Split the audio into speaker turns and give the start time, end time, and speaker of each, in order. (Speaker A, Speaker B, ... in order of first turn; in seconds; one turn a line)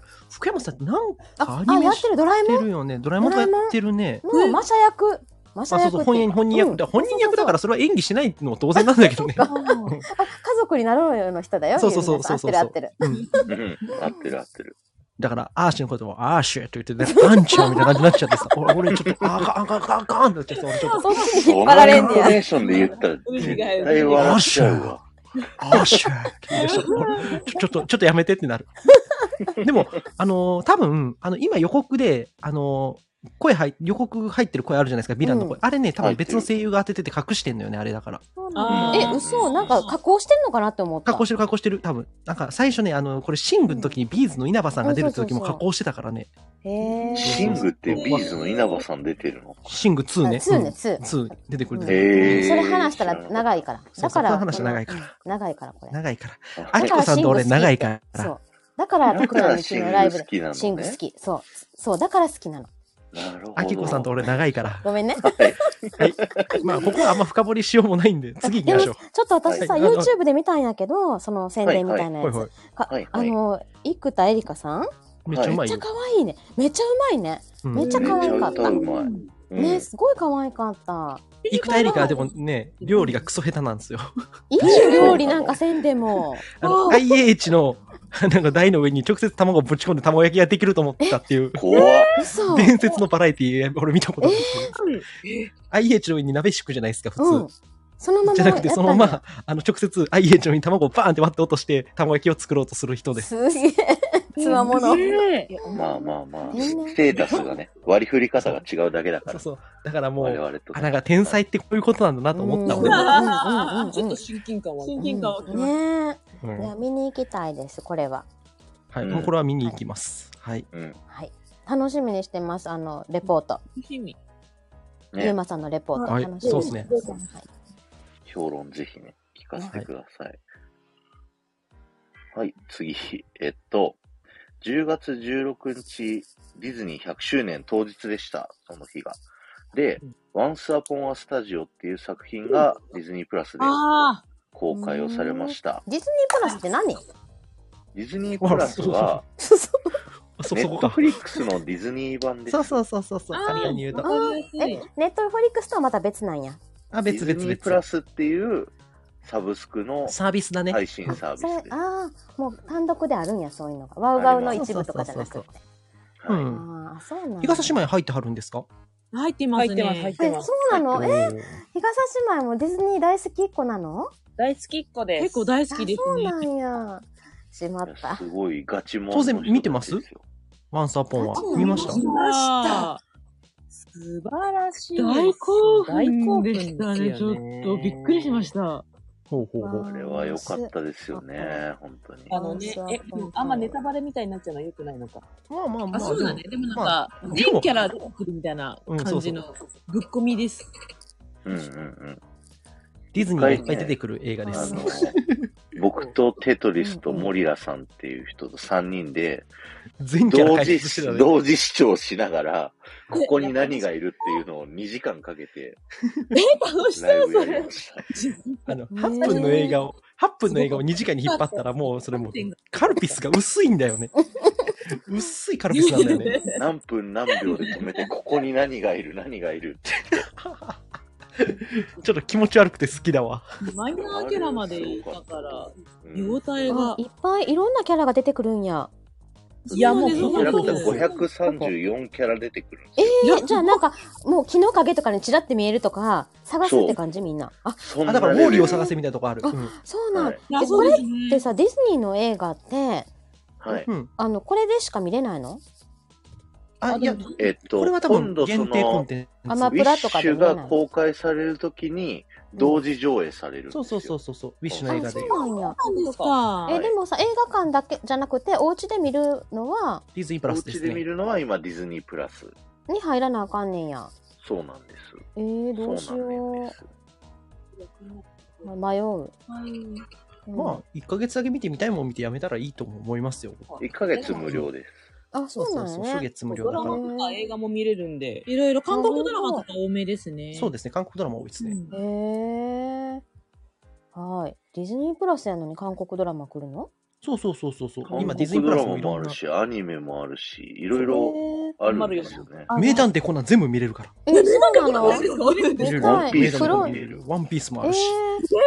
Speaker A: 0.3-4.2
Speaker B: 1.4-2.7
Speaker B: 3.2-7.6
Speaker C: 4.3-4.6
Speaker A: 5.7-10.1
Speaker B: 8.8-13.5
Speaker C: 9.4-9.9
Speaker A: 11.7-13.2
Speaker D: 13.5-14.8
Speaker A: 15.2-22.4
Speaker B: 17.0-18.0
Speaker D: 18.8-19.4
Speaker B: 20.9-22.5
Speaker D: 21.3-25.0
Speaker E: 22.6-24.5
Speaker C: 23.5-24.1
Speaker A: 24.1-24.9
Speaker A: 25.6-28.7
Speaker E: 26.5-27.4
Speaker A: 29.6-38.2
Speaker B: 35.2-35.6
Speaker D: 36.0-36.5
Speaker B: 38.4-41.2
Speaker C: 38.5-39.9
Speaker E: 38.5-39.8
Speaker D: 38.7-39.6
Speaker A: 41.0-46.3
Speaker B: 43.7-44.0
Speaker B: 44.8-45.6
Speaker B: 46.6-47.5
Speaker E: 46.9-48.8
Speaker D: 47.1-49.8
Speaker A: 47.2-48.2
Speaker A: 49.7-52.5
Speaker B: 50.2-51.0
Speaker B: 51.7-56.0
Speaker D: 51.9-53.6
Speaker A: 54.0-55.1
Speaker A: 55.9-58.3
Speaker D: 56.6-57.0
Speaker B: 56.7-62.7
Speaker D: 59.1-61.0
Speaker D: 63.1-64.4
Speaker A: 63.5-65.4
Speaker B: 64.8-65.3
Speaker D: 65.2-66.7
Speaker A: 66.0-69.0
Speaker B: 68.4-74.9
Speaker D: 69.4-69.8
Speaker A: 69.6-70.1
Speaker D: 71.6-72.1
Speaker A: 72.2-72.5
Speaker D: 72.9-73.3
Speaker A: 75.2-75.8
Speaker D: 75.3-75.6
Speaker B: 75.5-78.8
Speaker A: 77.6-78.2
Speaker E: 77.8-79.2
Speaker D: 77.8-79.9
Speaker B: 79.5-81.2
Speaker C: 81.4-82.3
Speaker A: 81.5-85.2
Speaker B: 84.5-86.5
Speaker D: 84.6-85.6
Speaker C: 84.7-85.1
Speaker A: 86.6-91.7
Speaker C: 86.6-87.1
Speaker D: 91.5-92.2
Speaker E: 91.7-92.0
Speaker B: 92.2-92.8
Speaker A: 92.4-94.7
Speaker B: 94.2-94.7
Speaker C: 95.0-95.5
Speaker A: 95.7-97.5
Speaker B: 97.2-99.2
Speaker A: 98.2-103.3
Speaker B: 103.2-107.0
Speaker C: 104.4-105.5
Speaker E: 104.4-107.5
Speaker D: 105.7-109.4
Speaker A: 109.2-113.1
Speaker D: 110.2-111.4
Speaker B: 112.3-114.2
Speaker E: 112.7-115.7
Speaker C: 113.0-113.4
Speaker C: 114.8-115.6
Speaker B: 115.0-118.2
Speaker A: 116.4-116.7
Speaker A: 118.9-120.7
Speaker D: 119.0-119.3
Speaker D: 120.7-121.0
Speaker B: 121.1-123.6
Speaker C: 123.8-124.2
Speaker B: 125.2-127.5
Speaker C: 126.0-127.1
Speaker A: 126.1-126.9
Speaker E: 126.4-127.2
Speaker D: 128.3-130.4
Speaker D: 132.3-134.0
Speaker D: 134.6-139.2
Speaker D: 139.7-145.8
Speaker C: 143.6-144.2
Speaker B: 144.7-147.0
Speaker D: 147.9-149.2
Speaker A: 148.4-149.2
Speaker B: 149.4-150.0
Speaker A: 150.4-151.2
Speaker D: 150.5-152.8
Speaker A: 152.5-154.1
Speaker C: 153.3-154.8
Speaker E: 153.4-154.8
Speaker B: 154.0-156.6
Speaker A: 156.9-157.8
Speaker D: 157.1-158.7
Speaker D: 159.2-161.7
Speaker A: 160.1-161.2
Speaker B: 161.2-165.6
Speaker D: 164.1-164.6
Speaker A: 164.5-165.5
Speaker D: 166.2-166.5
Speaker A: 166.3-166.6
Speaker B: 166.5-167.8
Speaker A: 167.4-168.7
Speaker C: 169.1-170.4
Speaker E: 169.5-170.5
Speaker B: 170.2-174.1
Speaker A: 170.7-171.6
Speaker E: 174.4-175.5
Speaker C: 175.2-176.4
Speaker B: 175.7-178.2
Speaker D: 177.8-180.2
Speaker A: 179.1-180.0
Speaker A: 180.7-182.0
Speaker B: 181.1-182.1
Speaker C: 181.4-183.0
Speaker E: 181.5-182.9
Speaker E: 183.7-188.5
Speaker C: 184.9-188.8
Speaker A: 189.3-189.9
Speaker B: 189.6-191.6
Speaker D: 189.8-192.3
Speaker B: 192.3-193.8
Speaker E: 192.3-195.2
Speaker A: 195.5-197.7
Speaker C: 195.9-200.7
Speaker A: 198.9-199.4
Speaker D: 201.4-202.2
Speaker A: 203.1-205.5
Speaker D: 203.2-204.0
Speaker B: 204.4-205.0
Speaker D: 204.5-205.2
Speaker D: 205.7-209.5
Speaker B: 206.8-207.3
Speaker A: 210.0-211.3
Speaker D: 210.3-215.8
Speaker C: 213.1-213.8
Speaker C: 216.3-217.7
Speaker D: 216.9-218.1
Speaker A: 218.7-224.1
Speaker B: 218.9-219.7
Speaker C: 219.2-219.8
Speaker C: 220.5-223.0
Speaker A: 224.9-226.3
Speaker C: 225.7-226.6
Speaker E: 225.9-226.5
Speaker D: 226.6-230.3
Speaker C: 227.5-227.8
Speaker A: 230.0-230.8
Speaker A: 231.4-233.5
Speaker C: 233.6-237.0
Speaker D: 233.9-236.7
Speaker E: 234.8-235.0
Speaker B: 236.7-238.9
Speaker C: 239.7-241.1
Speaker E: 239.7-241.2
Speaker D: 239.7-243.2
Speaker A: 240.1-241.1
Speaker B: 243.0-253.1
Speaker C: 243.2-243.8
Speaker D: 246.6-247.0
Speaker D: 247.8-248.9
Speaker A: 248.1-249.7
Speaker D: 250.1-250.4
Speaker C: 250.5-251.4
Speaker E: 250.5-250.9
Speaker D: 253.6-253.9
Speaker B: 253.7-255.6
Speaker A: 256.8-259.7
Speaker C: 256.9-257.4
Speaker E: 257.0-257.3
Speaker D: 257.3-259.1
Speaker B: 259.5-260.8
Speaker D: 259.6-264.1
Speaker A: 263.7-265.4
Speaker D: 264.7-265.2
Speaker B: 264.9-265.8
Speaker E: 265.4-266.4
Speaker C: 265.5-266.8
Speaker B: 266.6-270.0
Speaker D: 266.7-266.9
Speaker A: 270.1-271.0
Speaker D: 270.4-272.5
Speaker B: 272.9-274.1
Speaker D: 274.4-275.2
Speaker B: 275.4-276.7
Speaker D: 275.8-276.9
Speaker E: 277.8-278.6
Speaker B: 278.6-279.3
Speaker C: 279.5-280.0
Speaker B: 280.5-280.8
Speaker A: 280.6-283.6
Speaker E: 283.7-284.6
Speaker D: 283.8-285.0
Speaker B: 285.3-287.4
Speaker A: 285.5-287.0
Speaker E: 286.5-288.5
Speaker C: 288.4-290.7
Speaker B: 288.9-289.6
Speaker A: 290.5-291.8
Speaker B: 291.9-293.2
Speaker B: 294.1-296.9
Speaker A: 297.2-299.4
Speaker D: 298.0-302.7
Speaker B: 298.2-298.4
Speaker B: 300.9-301.8
Speaker E: 301.8-302.9
Speaker C: 302.7-303.0
Speaker A: 302.7-304.1
Speaker B: 304.3-307.0
Speaker C: 304.4-306.0
Speaker E: 304.6-305.8
Speaker A: 305.8-308.2
Speaker D: 306.0-307.2
Speaker B: 307.8-308.4